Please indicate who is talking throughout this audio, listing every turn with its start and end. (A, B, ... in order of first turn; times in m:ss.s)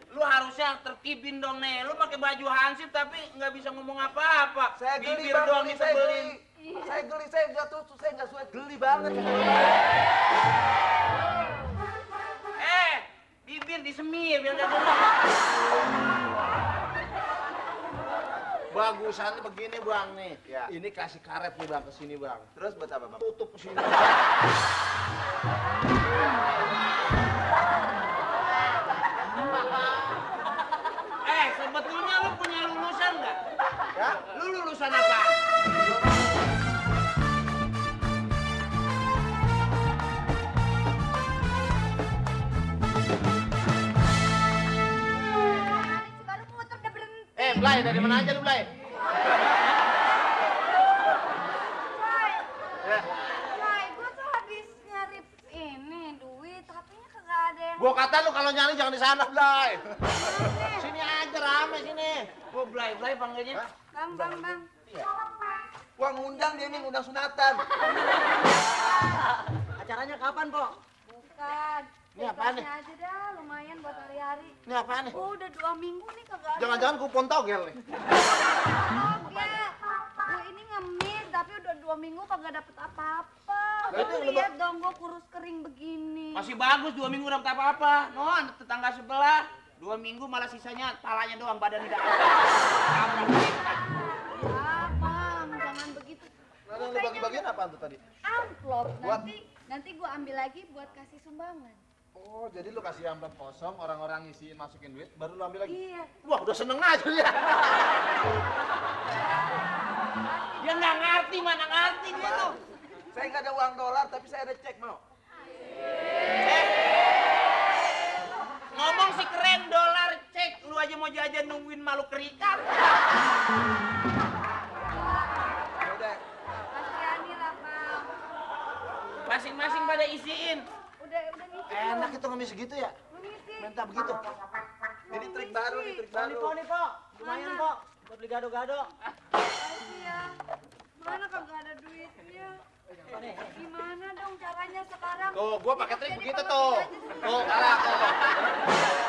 0:00.1-0:06.3 A
0:04.8-0:09.8 B
0:12.6-0:15.3 A
0:18.7-0:22.5 C
0:22.6-0:23.2 B
0:23.1-0:24.2 C
0:29.4-0:30.1 C
0:31.2-0:33.4 A
0:34.3-0:35.4 A
0:45.2-0:47.8 D
0:47.4-0:48.7 C
0:52.0-0:52.5 D
0:53.3-0:58.0 D
0:57.8-1:00.0 C
1:00.4-1:00.8 D
1:00.6-1:02.3 C
1:02.5-1:03.6 A
1:03.5-1:05.0 C
1:03.9-1:04.7 D
1:06.0-1:07.6 B
1:09.8-1:10.8 E
1:11.0-1:14.6 D
1:12.2-1:12.7 C
1:14.7-1:15.2 C
1:15.1-1:16.9 D
1:16.6-1:17.8 C
1:18.8-1:26.5 D
1:19.3-1:19.6 C
1:23.9-1:24.5 C
1:26.3-1:33.9 A
1:34.3-1:37.5 D
1:36.7-1:38.0 C
1:38.2-1:41.8 D
1:42.2-1:47.8 C
1:45.7-1:46.1 D
1:50.6-1:52.6 A
1:52.2-1:52.6 B
1:53.1-1:55.0 B
1:56.4-1:56.8 A
1:58.7-2:02.8 A
2:05.8-2:06.2 B
2:06.5-2:08.2 D
2:09.3-2:10.7 A
2:11.0-2:12.2 D
2:11.7-2:13.0 C
2:13.1-2:13.7 D
2:13.6-2:14.3 C
2:15.1-2:16.6 B
2:15.1-2:16.0 D
2:16.1-2:18.9 E
2:17.2-2:17.7 D
2:19.5-2:20.4 D
2:21.0-2:22.6 D
2:23.1-2:23.4 E
2:23.4-2:28.1 D
2:25.3-2:28.2 C